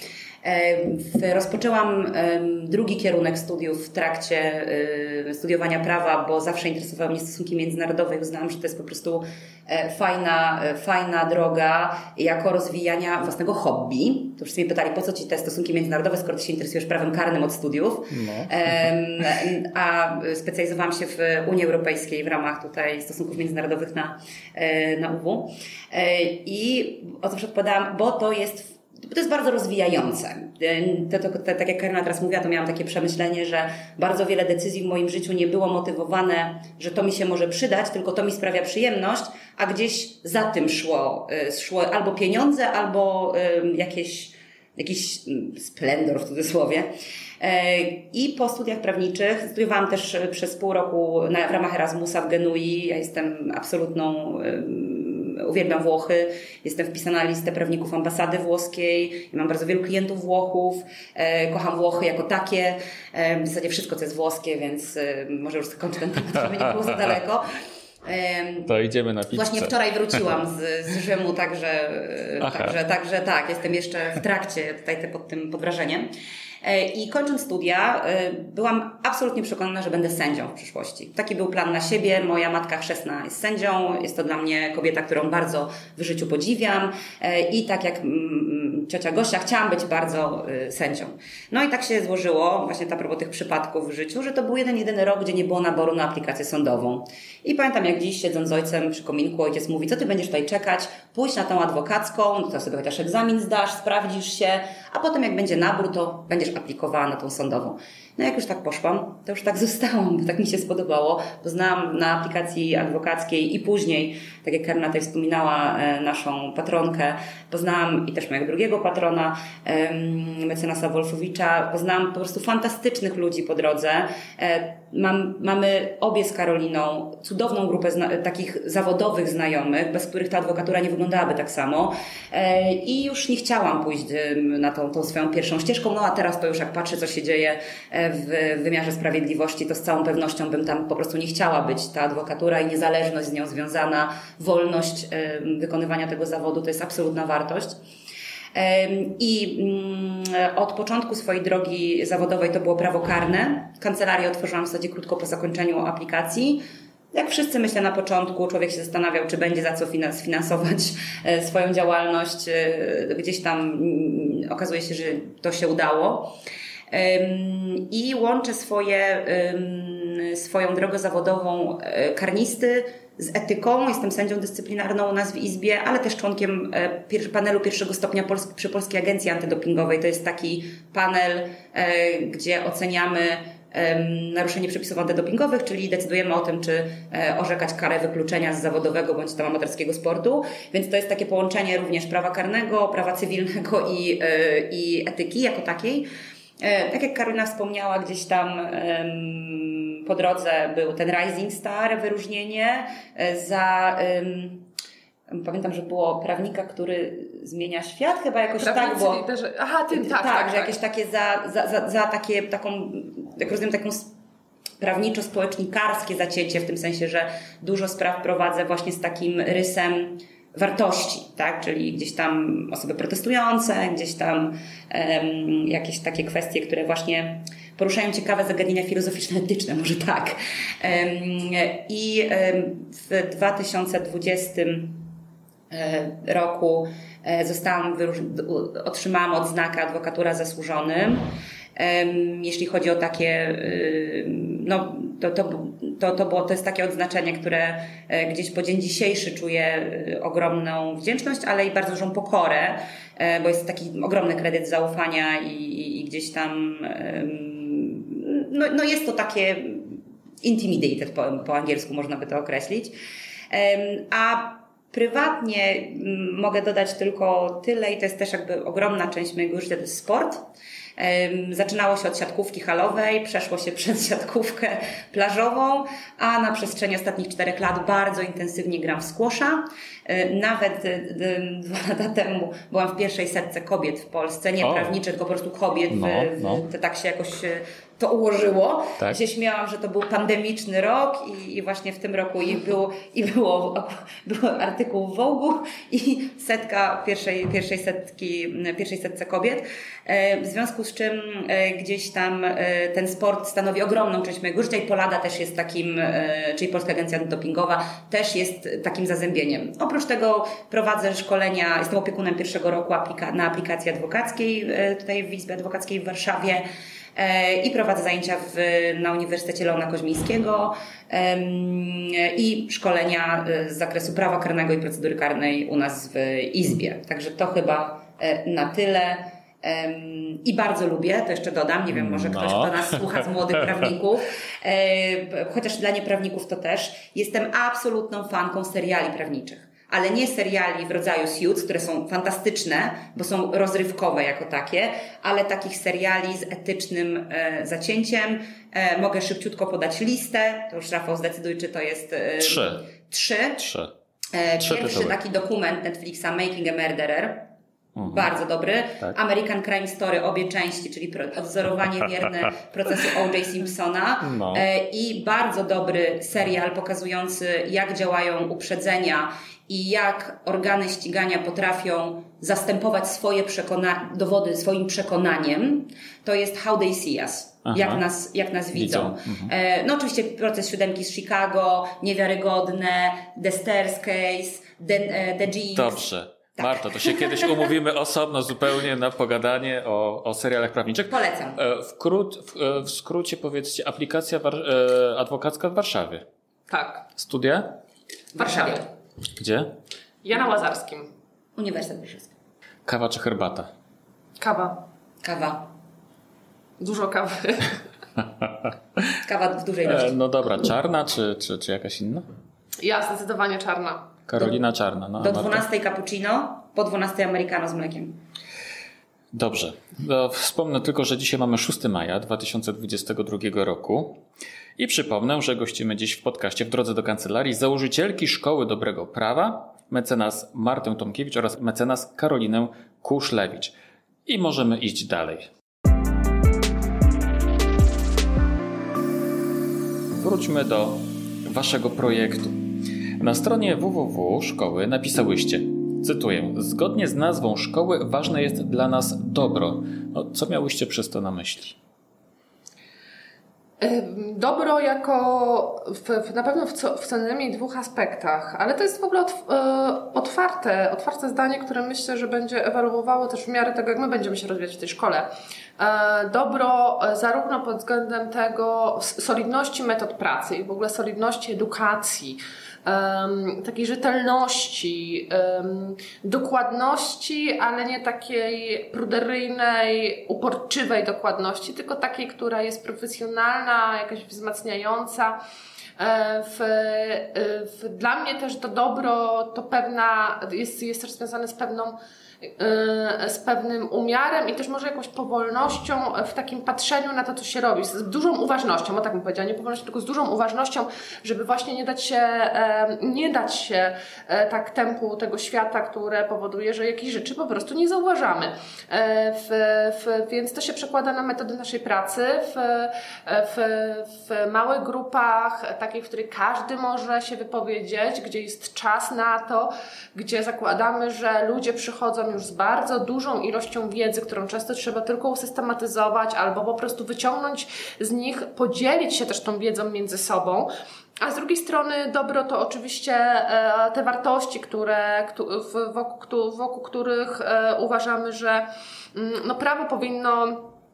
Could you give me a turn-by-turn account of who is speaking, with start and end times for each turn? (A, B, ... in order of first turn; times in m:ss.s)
0:00.4-0:46.9 A
0:18.1-0:18.7 B
0:47.4-1:07.4 A
1:08.0-1:08.7 A
1:08.7-1:09.7 B
1:09.3-1:16.1 A
1:12.4-1:12.8 B
1:16.6-2:27.8 A
2:28.5-2:36.6 A
2:37.1-2:46.3 A
2:46.9-3:16.1 A
3:16.6-3:24.7 A
3:25.3-3:29.2 A
3:28.6-3:30.8 C
3:29.9-3:34.1 A
3:34.8-3:55.0 A
3:55.7-4:23.0 A
4:23.5-4:30.4 A
4:31.0-5:53.7 A
4:44.6-4:45.0 B
4:45.9-4:46.6 B
5:31.9-5:33.1 B
5:52.4-5:52.9 B
5:53.6-5:53.9 B
5:54.3-5:57.5 A
5:54.6-5:55.2 B
5:58.0-5:58.3 B
5:58.0-6:26.1 A
6:04.2-6:04.7 B
6:17.7-6:18.0 B
6:18.7-6:19.5 B
6:25.7-6:36.2 B
6:26.6-6:27.6 A
6:31.1-6:31.6 A
6:36.7-6:37.0 C
6:37.2-6:37.8 B
6:38.4-6:38.8 A
6:38.4-6:38.8 C
6:39.4-6:39.7 B
6:40.2-6:41.1 C
6:41.6-6:42.3 A
6:42.9-6:43.7 B
6:44.4-6:44.8 C
6:45.2-6:45.7 A
6:46.8-6:47.8 C
6:49.2-6:50.1 A
6:49.8-6:52.3 B
6:52.8-6:54.1 C
6:54.3-6:55.6 B
6:55.2-6:58.2 A
6:59.3-7:04.2 B
7:04.8-7:13.7 B
7:14.3-7:15.5 B
7:20.2-7:22.6 B
7:23.2-7:31.8 B
7:33.8-8:05.4 C
8:06.0-8:50.7 C
8:51.2-9:00.7 C